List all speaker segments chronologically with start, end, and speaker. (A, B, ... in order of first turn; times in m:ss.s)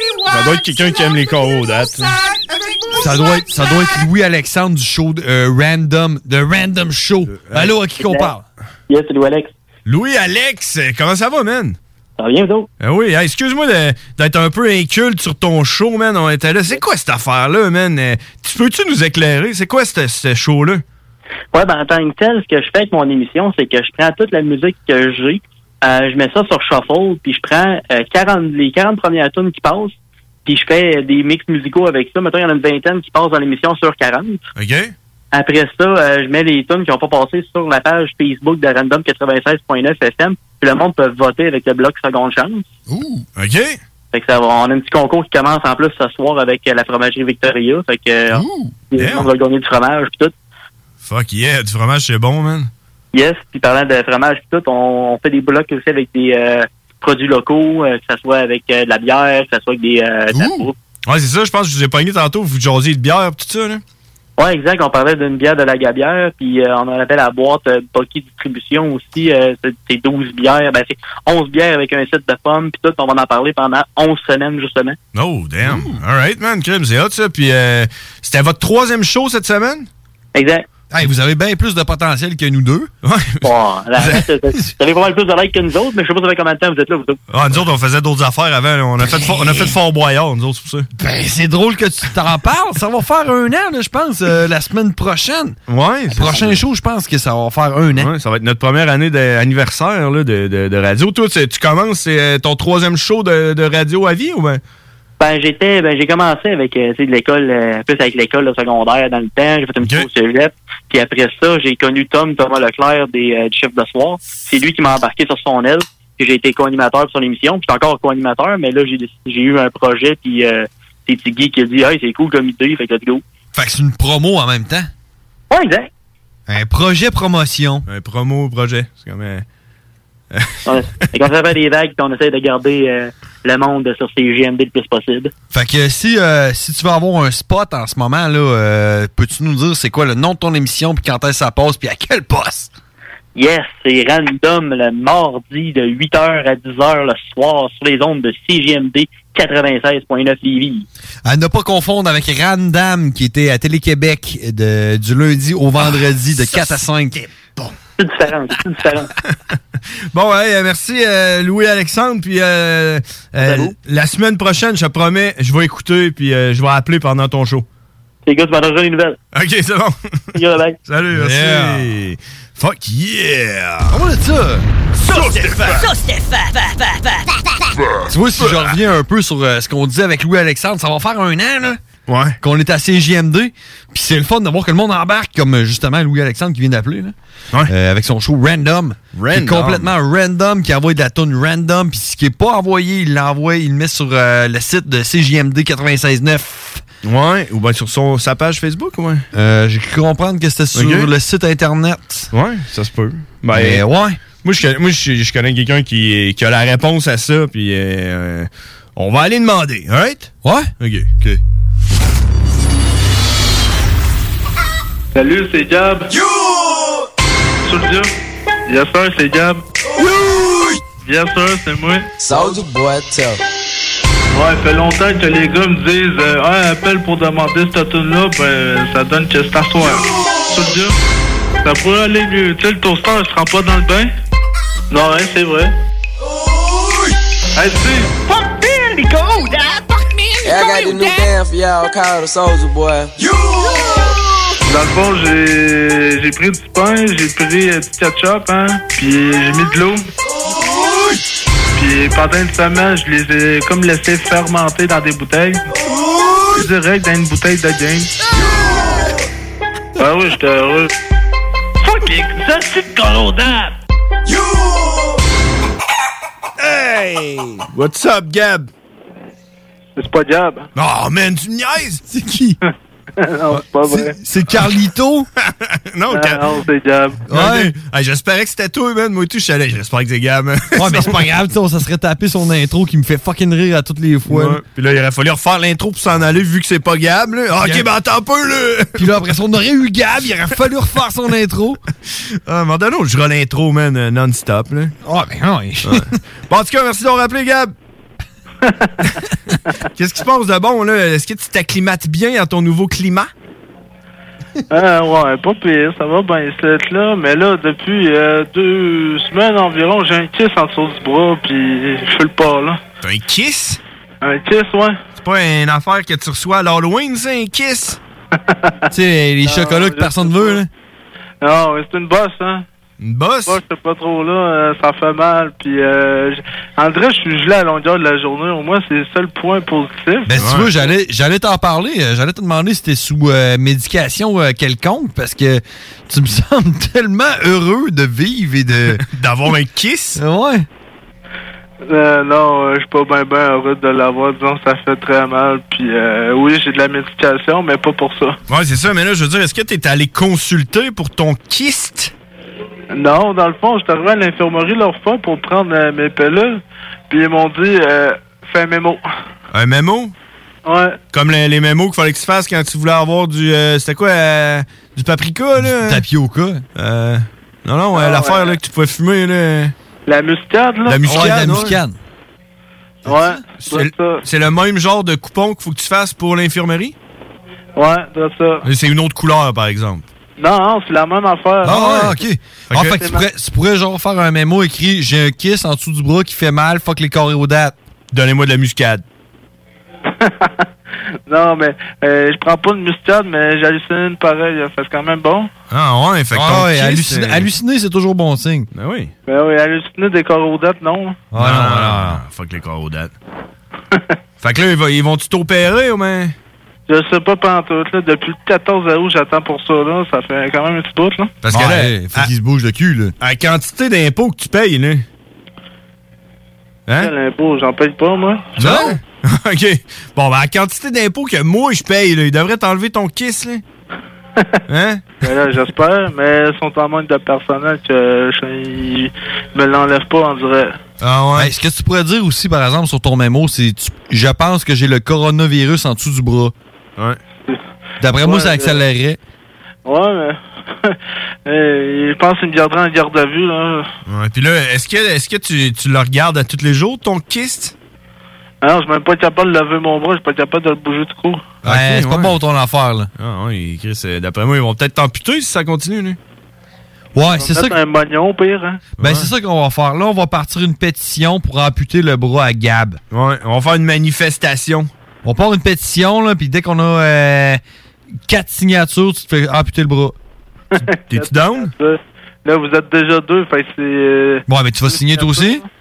0:00.3-0:02.2 A
0:02.9-0:08.4 B
0:07.3-0:07.8 A
0:08.0-0:08.3 C
0:08.9-0:09.5 C
0:09.8-0:11.8 A
0:12.2-0:12.7 C
0:12.8-0:20.8 A
0:21.5-0:29.9 C
0:30.4-0:34.5 C
0:34.6-0:34.9 A
0:35.3-0:42.6 C
0:42.9-0:43.2 B
0:43.4-0:43.8 A
0:44.1-0:50.3 C
0:48.3-0:48.7 B
0:49.0-0:49.3 A
0:51.0-0:52.7 A
0:53.1-1:00.7 C
1:01.1-1:03.8 A
1:04.4-1:15.0 C
1:15.1-1:19.9 A
1:15.6-1:16.0 B
1:20.3-1:20.7 C
1:20.9-1:22.9 B
1:23.0-1:23.4 A
1:23.4-1:27.2 C
1:24.0-1:24.2 A
1:27.3-1:30.9 A
1:31.0-1:35.6 B
1:35.7-1:36.6 A
1:36.1-1:38.1 B
1:37.9-1:44.6 A
1:45.2-2:03.2 C
1:49.8-1:50.1 A
2:03.5-2:04.9 B
2:05.5-2:05.9 C
2:06.5-2:07.8 B
2:07.9-2:09.4 A
2:10.6-2:15.3 C
2:15.5-2:22.7 B
2:23.4-2:30.8 C
2:31.2-2:37.2 B
2:36.5-2:36.8 A
2:38.0-2:39.1 C
2:40.1-2:47.6 A
2:43.4-2:43.7 C
2:48.2-2:49.2 C
2:49.3-2:50.0 A
2:50.3-2:50.8 C
2:50.9-2:54.0 A
2:51.1-2:51.9 B
2:53.9-2:54.7 B
2:55.0-2:55.9 A
2:58.1-3:01.8 B
3:02.1-3:02.4 A
3:02.4-3:07.1 B
3:07.7-3:16.8 B
3:09.1-3:09.9 A
3:17.0-3:19.2 A
3:19.3-3:22.3 B
3:20.7-3:21.1 A
3:22.3-3:23.8 A
3:23.5-3:24.2 B
3:24.4-3:31.3 A
3:30.4-3:30.7 B
3:35.1-3:36.1 D
3:37.6-3:38.1 D
3:38.7-3:39.6 D
3:41.0-3:42.1 D
3:42.2-3:43.4 E
3:44.3-3:51.0 D
3:51.6-3:54.1 D
3:54.9-3:55.7 D
3:57.6-3:58.1 D
4:00.4-4:03.1 E
4:04.7-4:10.1 D
4:11.7-4:15.7 D
4:16.4-4:18.1 D
4:20.0-4:20.9 D
4:21.8-4:23.7 D
4:26.6-4:28.7 A
4:30.0-4:30.6 D
4:30.7-4:32.0 A
4:32.1-4:32.6 B
4:33.2-4:34.2 D
4:33.5-4:35.3 B
4:35.4-4:36.4 A
4:36.1-4:37.2 D
4:37.3-4:37.7 B
4:37.3-4:41.2 A
4:40.7-4:44.6 B
4:44.3-4:49.1 A
4:47.6-4:47.9 B
4:49.0-4:51.8 B
4:52.4-4:54.9 A
4:55.0-4:56.1 B
4:55.8-4:57.7 A
4:58.6-4:58.9 D
5:00.0-5:03.3 A
5:04.7-5:12.8 D
5:13.0-5:13.8 A
5:14.2-5:15.0 D
5:15.2-5:18.0 A
5:18.4-5:18.8 D
5:18.9-5:20.7 B
5:19.4-5:20.6 D
5:21.4-5:22.6 D
5:23.0-5:23.6 A
5:23.5-5:30.4 D
5:30.3-5:39.0 B
5:30.4-5:30.7 A
5:39.0-5:40.2 A
5:40.2-5:40.6 B
5:41.8-5:48.4 D
5:48.5-5:52.1 A
5:52.9-5:59.0 D
5:59.5-6:00.1 A
6:00.6-6:01.0 D
6:01.1-6:06.0 A
6:05.6-6:06.6 B
6:06.8-6:09.7 A
6:07.9-6:08.6 D
6:10.1-6:11.7 D
6:10.8-6:11.8 A
6:11.0-6:12.0 B
6:13.0-6:13.4 B
6:13.0-6:14.2 D
6:13.6-6:16.9 A
6:17.8-6:18.7 D
6:18.6-6:20.1 A
6:20.4-6:22.1 D
6:21.6-6:27.7 B
6:21.7-6:22.0 A
6:22.7-6:23.0 A
6:22.8-6:23.2 D
6:28.1-6:29.0 A
6:30.1-6:30.7 D
6:31.3-6:35.5 D
6:35.7-6:37.5 A
6:36.3-6:38.7 B
6:38.7-6:39.1 A
6:39.3-6:41.2 D
6:41.3-6:42.2 B
6:41.4-6:43.1 A
6:44.4-6:46.3 A
6:46.9-6:51.4 D
6:51.4-6:52.3 A
6:51.5-6:53.1 B
6:53.2-6:55.0 A
6:57.0-6:58.8 D
6:58.6-7:03.6 A
6:58.6-6:59.0 B
7:04.7-7:05.2 A
7:05.2-7:10.8 D
7:11.0-7:11.5 A
7:11.4-7:16.5 B
7:18.0-7:19.2 B
7:18.2-7:18.8 D
7:19.8-7:23.9 D
7:24.1-7:27.7 A
7:28.6-7:31.6 D
7:31.6-7:33.1 B
7:31.6-7:32.3 A
7:33.2-7:36.2 A
7:37.1-7:37.8 B
7:37.4-7:38.8 D
7:39.0-7:43.0 B
7:39.0-7:39.3 A
7:43.1-7:44.9 A
7:45.2-7:47.6 B
7:48.2-7:50.2 B
7:50.7-7:55.6 D
7:51.1-7:51.7 A
7:54.5-7:55.6 B